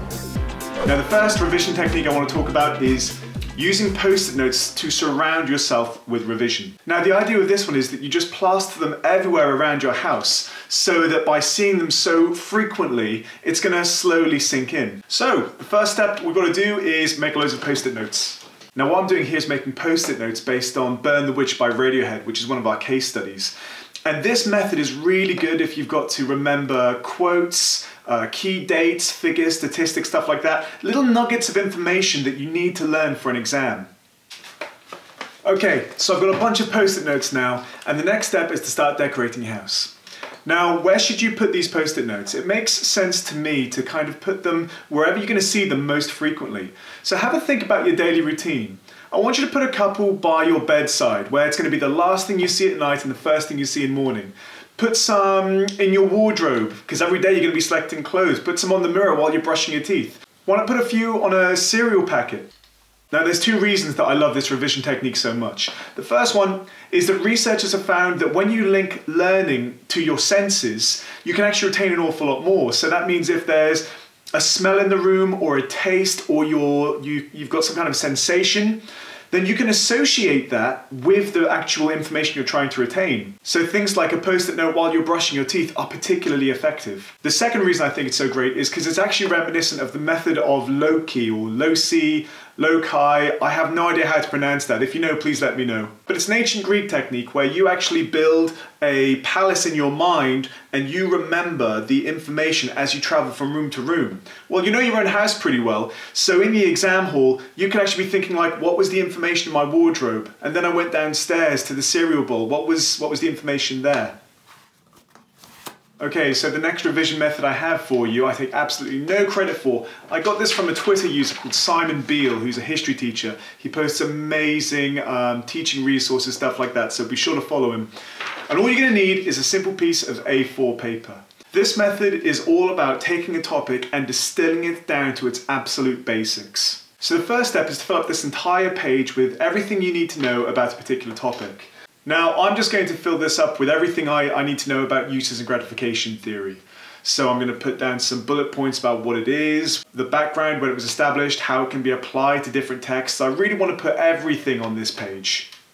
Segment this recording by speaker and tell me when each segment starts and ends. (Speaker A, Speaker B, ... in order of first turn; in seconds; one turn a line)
Speaker A: 0.9-23.5
Speaker A: 24.1-33.9
Speaker A: 35.4-39.9
Speaker A: 40.5-62.5
Speaker A: 63.1-114.2
Speaker A: 116.0-127.9
Speaker A: 128.5-155.5